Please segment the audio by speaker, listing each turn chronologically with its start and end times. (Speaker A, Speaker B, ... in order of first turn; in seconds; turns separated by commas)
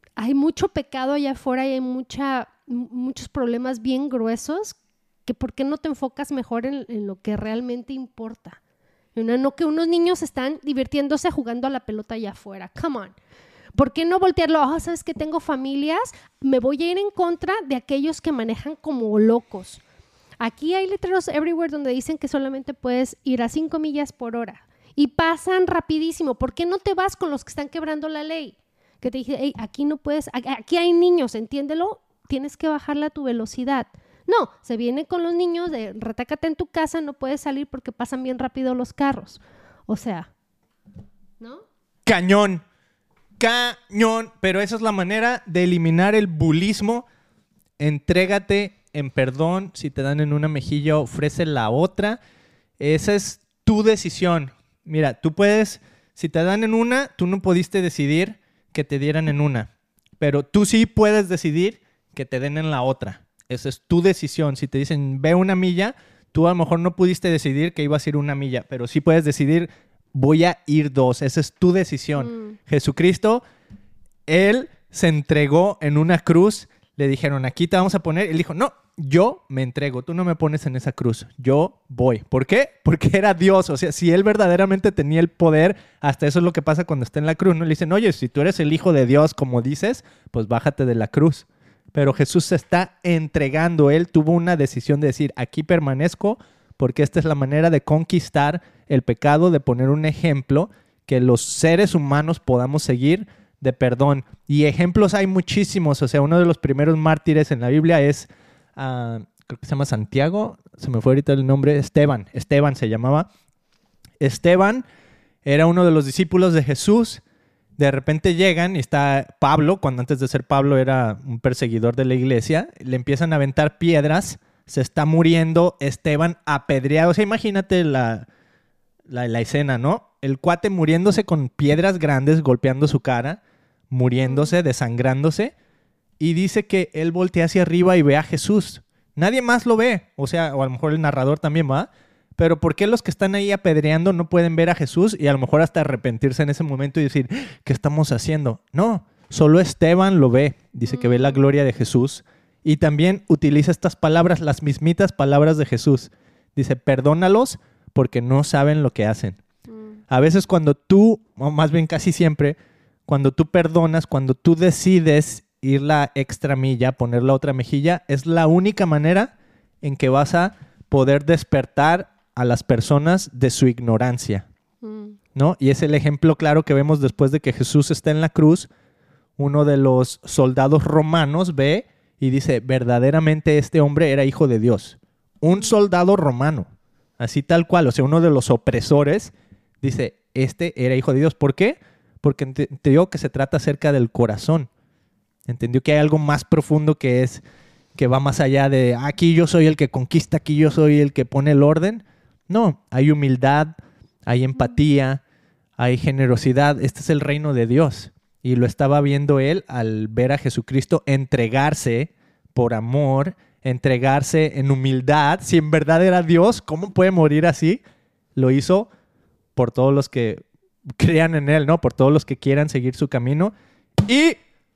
Speaker A: 0.2-8.6, Speaker A: 9.2-13.2, Speaker A: 13.8-19.8, Speaker A: 20.4-40.3, Speaker B: 42.1-42.6, Speaker B: 43.4-47.0, Speaker B: 47.8-52.2, Speaker B: 52.8-59.7, Speaker B: 60.2-73.4, Speaker A: 72.2-72.6, Speaker B: 74.3-113.3, Speaker B: 114.2-114.8, Speaker B: 115.5-117.2, Speaker B: 117.8-128.3, Speaker B: 129.1-135.5, Speaker A: 134.2-134.6, Speaker B: 136.2-159.4, Speaker A: 150.9-151.4, Speaker A: 159.7-160.0, Speaker B: 160.1-162.6, Speaker B: 163.1-174.5, Speaker A: 174.8-175.2, Speaker B: 175.3-178.7, Speaker B: 179.4-186.7, Speaker B: 187.2-194.7, Speaker B: 195.5-197.4, Speaker B: 197.9-203.7, Speaker B: 204.3-205.2, Speaker B: 205.8-217.8, Speaker B: 218.3-218.9, Speaker B: 219.6-220.4, Speaker B: 221.0-224.4